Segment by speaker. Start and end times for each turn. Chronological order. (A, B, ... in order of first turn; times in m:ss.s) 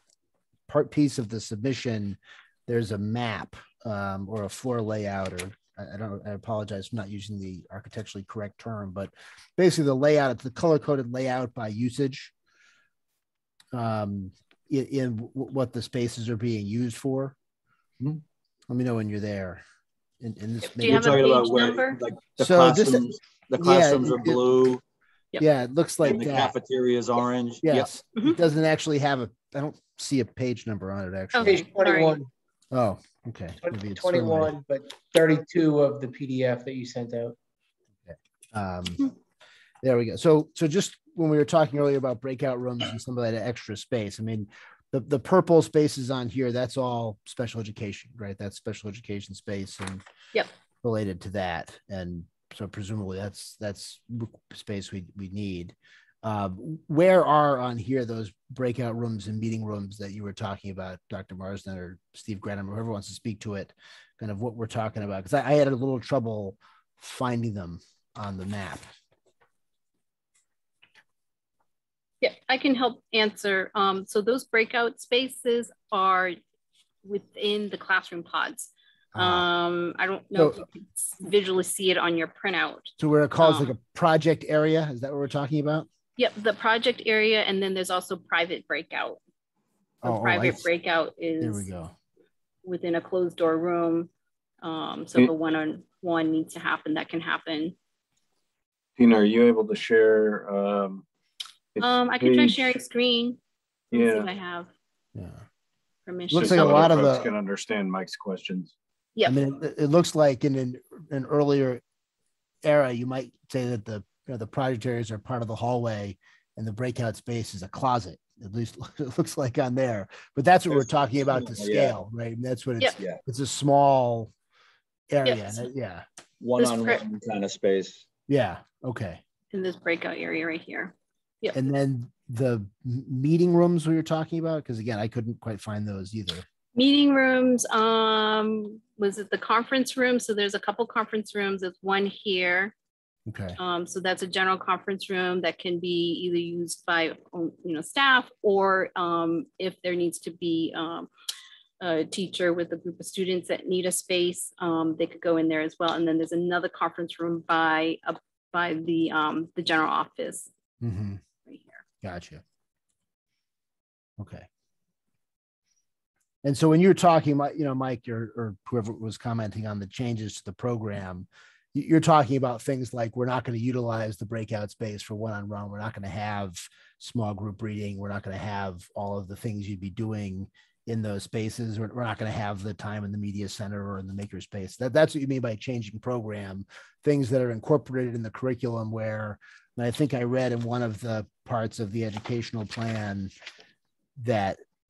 0:00.7-0:12.3 A
0:13.7-0:17.4 A
0:18.7-0:19.6 A
0:20.2-0:21.4 A
0:20.6-0:22.0 B
0:20.8-0:24.8 C
0:22.4-0:24.4 A
0:25.4-0:26.5 A
0:26.0-0:27.9 C
0:27.6-0:31.7 A
0:28.2-0:28.4 B
0:31.3-0:32.2 B
0:31.4-0:32.3 D
0:32.7-0:34.6 A
0:33.6-0:37.4 D
0:38.1-0:39.1 A
0:39.8-0:50.0 A
0:50.8-1:08.9 A
1:12.2-1:16.4 B
1:17.0-1:23.7 B
1:19.2-1:19.5 A
1:20.4-1:20.6 A
1:23.0-1:25.9 A
1:26.2-1:29.2 B
1:30.0-1:30.7 A
1:30.0-1:31.7 B
1:31.4-1:31.9 A
1:32.6-1:34.1 B
1:34.6-1:37.8 B
1:39.0-1:41.0 E
1:41.8-1:42.8 E
1:41.8-1:43.4 B
1:43.9-1:44.3 E
1:43.9-1:44.7 B
1:45.2-1:45.4 A
1:46.1-1:47.2 B
1:46.3-1:48.7 E
1:46.3-1:47.3 A
1:49.2-1:49.4 B
1:49.3-1:51.8 A
1:52.6-2:04.3 A
2:00.7-2:02.0 C
2:05.1-2:06.0 A
2:05.2-2:05.7 B
2:06.4-2:08.1 C
2:06.6-2:07.0 B
2:08.3-2:09.2 A
2:09.5-2:11.6 B
2:11.5-2:16.5 A
2:16.8-2:22.7 B
2:23.3-2:23.6 A
2:23.6-2:31.1 B
2:31.8-2:40.5 B
2:40.8-2:41.2 A
2:41.4-2:41.8 B
2:42.0-2:42.4 A
2:44.2-2:44.5 A
2:46.4-3:13.3 A
3:14.2-3:14.6 A